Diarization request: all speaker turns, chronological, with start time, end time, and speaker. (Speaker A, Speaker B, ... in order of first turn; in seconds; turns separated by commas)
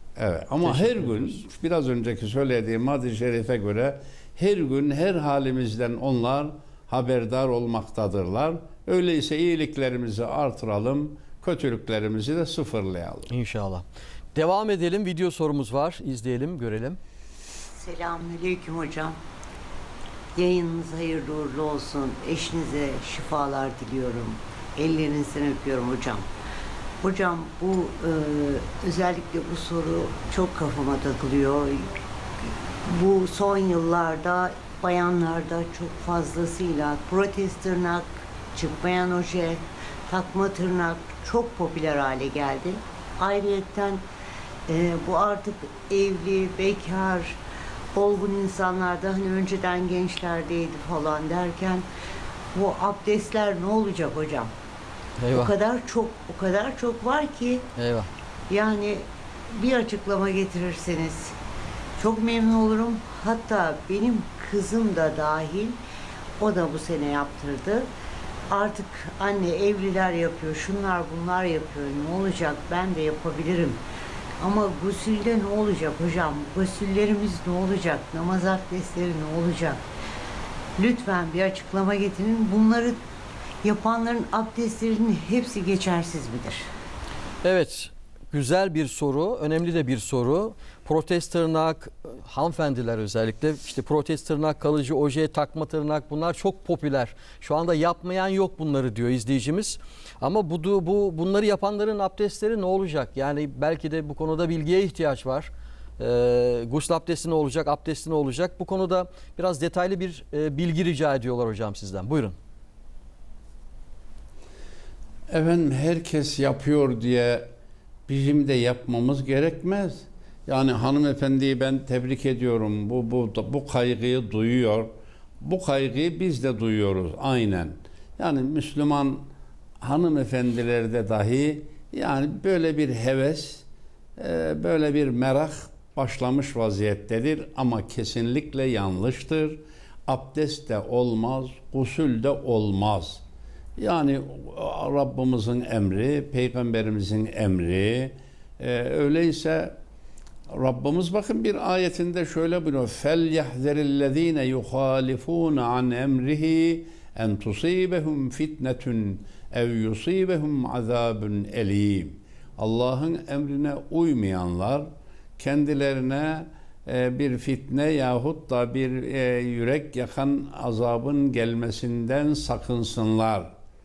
Speaker A: 0.1-13.3, Speaker B: 0.6-1.1, Speaker B: 13.3-17.0, Speaker C: 17.8-19.1, Speaker C: 20.3-26.2, Speaker C: 27.0-44.0, Speaker C: 44.7-47.4, Speaker C: 47.9-51.8, Speaker C: 52.5-54.5, Speaker B: 55.2-55.5, Speaker C: 55.3-57.6, Speaker B: 57.8-58.1, Speaker C: 58.5-59.0, Speaker C: 59.5-61.4, Speaker C: 62.0-65.8, Speaker C: 66.4-67.9, Speaker C: 68.5-73.8, Speaker C: 74.4-79.8, Speaker C: 80.8-83.0, Speaker C: 83.6-86.7, Speaker B: 87.4-112.3, Speaker A: 115.3-117.5, Speaker A: 118.1-129.2, Speaker A: 129.8-133.7, Speaker A: 134.2-143.2, Speaker A: 143.8-149.7, Speaker A: 150.5-173.5